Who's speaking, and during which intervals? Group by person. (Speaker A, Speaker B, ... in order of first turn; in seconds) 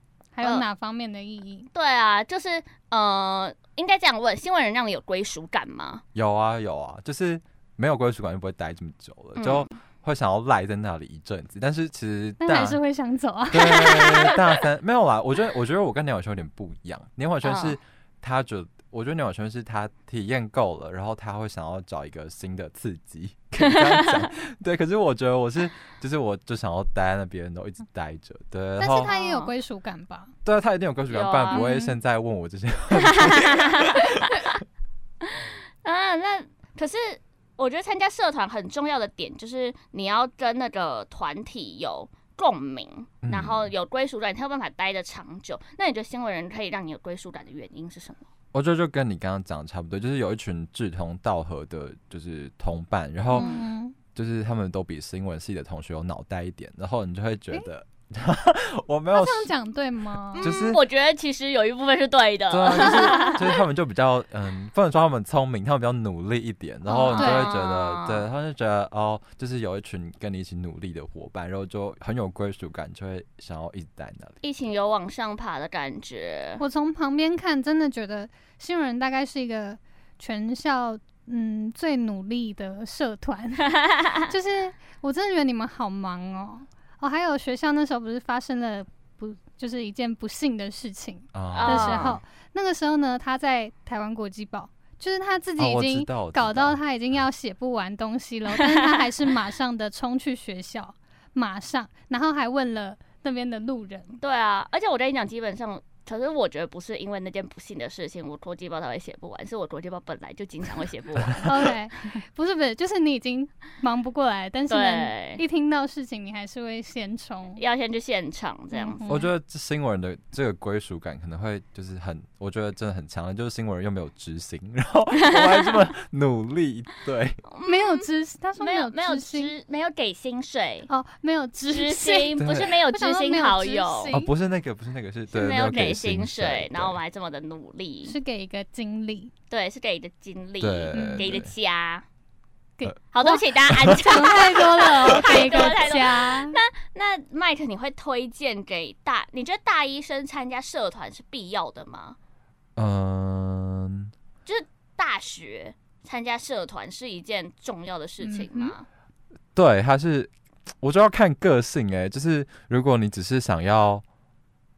Speaker A: 0.3-1.7, 12.4-14.6, 28.8-30.3, 31.5-31.9, 53.3-53.9, 59.1-60.5, 66.9-67.5, 76.6-83.7, 84.3-104.2, 111.4-117.6, 118.7-119.3, 127.7-129.5, 130.9-134.3, 138.1-139.3, 140.9-141.3, 142.8-146.6, 158.2-158.7
Speaker B: 1.7-6.0, 9.3-9.7, 17.4-17.8, 23.7-24.2, 29.0-29.5, 31.1-31.6, 32.9-34.6, 35.2-48.2, 53.3-53.6, 60.3-63.5, 67.1-68.2, 74.4-76.6, 83.8-84.3, 91.5-92.2, 98.5-99.1, 104.2-111.7, 114.7-115.4, 117.6-119.0, 125.2-125.8, 127.5-128.1, 128.6-130.9, 131.7-134.2, 135.3-138.2, 139.5-142.0, 143.1-152.2, 154.4-158.8
Speaker C: 6.1-12.8, 13.5-29.1, 30.4-34.3, 43.2-43.7, 48.5-53.5, 54.1-59.5, 60.4-60.8, 62.5-74.3, 91.3-92.2, 95.6-96.8, 119.0-127.4, 132.4-132.7, 134.1-137.0, 140.6-141.5, 152.8-154.1, 159.5-164.0